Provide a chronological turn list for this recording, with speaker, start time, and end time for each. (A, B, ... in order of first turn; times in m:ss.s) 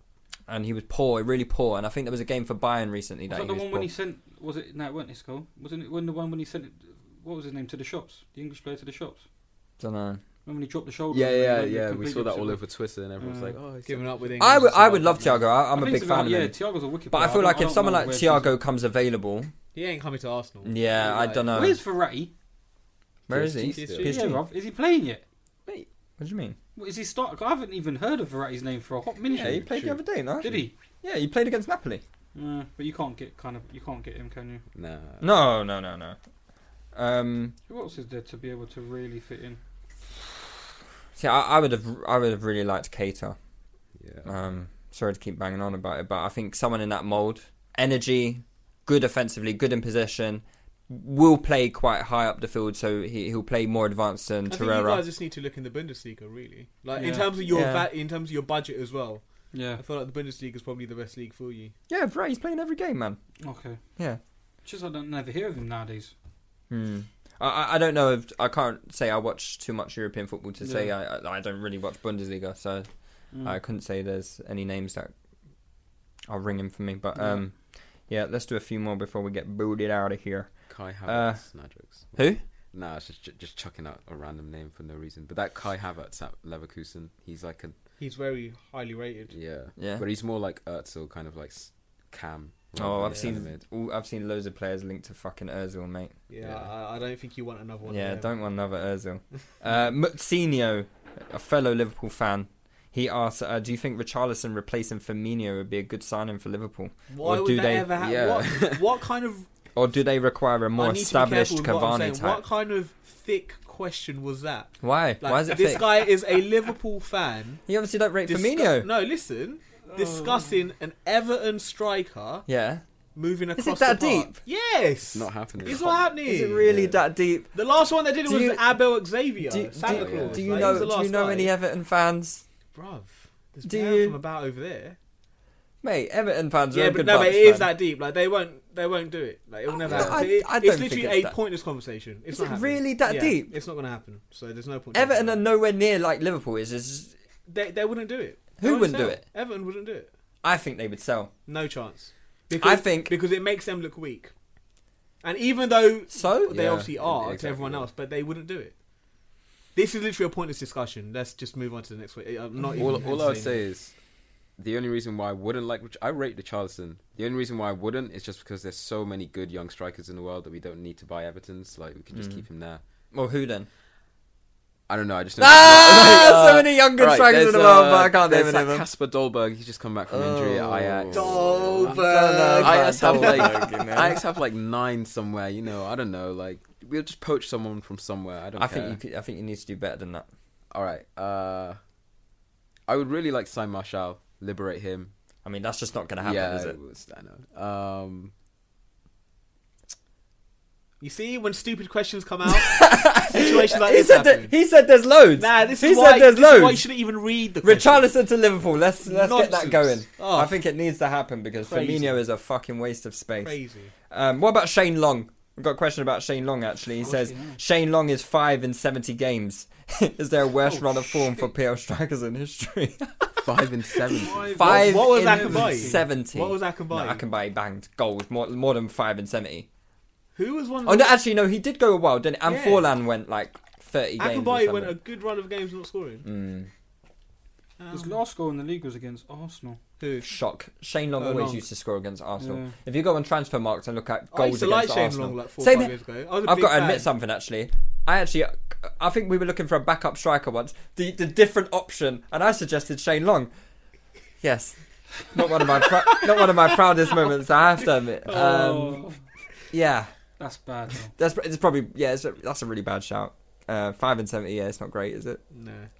0:00.5-0:03.9 A
0:03.3-0:09.2 B
0:09.8-0:10.2 A
0:10.4-0:12.6 B
0:11.1-0:14.4 C
0:13.2-0:13.6 B
0:13.8-0:15.4 D
0:14.4-0:16.6 A
0:15.7-0:18.6 B
0:17.1-0:19.5 A
0:19.7-0:21.6 D
0:20.6-0:21.8 A
0:21.5-0:22.3 B
0:23.3-0:24.1 C
0:23.3-0:24.4 A
0:23.7-0:24.1 D
0:24.0-0:25.2 B
0:26.2-0:26.6 A
0:26.8-0:29.7 B
0:29.3-0:32.0 A
0:29.3-0:30.0 C
0:30.4-0:30.7 B
0:32.3-0:34.6 B
0:34.7-0:35.3 C
0:35.2-0:36.2 A
0:36.9-0:37.6 A
0:37.7-0:39.6 B
0:41.2-0:43.4 A
0:44.0-0:44.3 C
0:44.2-0:55.0 A
0:54.5-1:01.7 D
0:57.0-0:57.3 B
0:57.4-0:57.9 A
0:59.5-0:59.8 B
1:01.9-1:03.2 A
1:03.4-1:03.8 B
1:04.6-1:06.1 B
1:06.7-1:15.1 A
1:10.6-1:10.9 B
1:13.3-1:13.6 B
1:16.3-1:21.4 A
1:17.2-1:17.4 B
1:20.7-1:27.8 C
1:22.1-1:22.4 A
1:28.0-1:29.3 D
1:29.3-1:33.6 C
1:29.8-1:30.0 A
1:32.8-1:36.2 A
1:36.3-1:38.3 D
1:36.4-1:36.7 C
1:37.9-1:47.9 A
1:47.1-1:49.5 D
1:48.0-1:49.0 C
1:49.8-1:52.4 A
1:50.7-1:57.6 D
1:54.8-1:56.1 A
1:57.7-1:58.9 A
1:58.3-2:02.4 D
1:59.9-2:00.4 B
2:02.5-2:02.8 A
2:03.1-2:06.6 D
2:03.6-2:04.4 A
2:05.1-2:07.0 C
2:05.7-2:07.6 A
2:07.5-2:11.5 D
2:08.2-2:08.8 A
2:09.4-2:12.4 A
2:09.8-2:10.9 C
2:12.7-2:15.0 D
2:13.6-2:14.2 A
2:15.8-2:17.7 A
2:16.7-2:25.4 D
2:19.7-2:21.3 A
2:19.9-2:20.2 C
2:22.3-2:23.5 A
2:24.9-2:27.1 A
2:27.5-2:30.1 D
2:28.6-2:29.2 A
2:30.4-2:31.3 A
2:31.5-2:34.3 D
2:32.6-2:33.2 A
2:35.2-2:38.8 D
2:36.1-2:36.6 A
2:36.5-2:37.9 C
2:39.7-2:43.6 D
2:42.8-2:43.9 C
2:44.6-2:52.8 C
2:52.1-2:52.4 A
2:53.1-2:53.7 A
2:54.9-3:02.0 C
2:55.4-2:58.8 A
3:00.1-3:04.2 A
3:01.1-3:03.9 D
3:02.6-3:09.0 C
3:08.6-3:10.3 A
3:10.7-3:11.8 C
3:12.9-3:15.1 C
3:15.4-3:16.8 A
3:16.2-3:18.3 C
3:21.0-3:24.5 D
3:22.6-3:26.9 A
3:25.4-3:28.1 D
3:27.6-3:43.5 A
3:29.0-3:30.5 D
3:31.6-3:32.2 D
3:33.4-3:33.9 D
3:37.0-3:37.6 B
3:40.6-3:41.5 B
3:43.4-3:44.6 C
3:44.2-3:49.7 A
3:44.3-3:46.1 B
3:44.6-3:47.2 D
3:50.4-3:51.2 D
3:50.8-3:54.9 A
3:52.4-3:52.9 D
3:54.2-3:56.2 D
3:56.2-3:56.7 A
3:57.8-3:58.2 D
3:57.9-3:59.8 B
4:00.0-4:00.3 D
4:00.2-4:13.5 A
4:01.2-4:01.6 D
4:02.4-4:02.7 B
4:04.3-4:07.1 D
4:14.4-4:19.0 A
4:15.8-4:16.4 D
4:18.2-4:19.2 B
4:19.7-4:20.1 A
4:20.4-4:21.1 B
4:21.2-4:25.4 A
4:25.5-4:25.9 D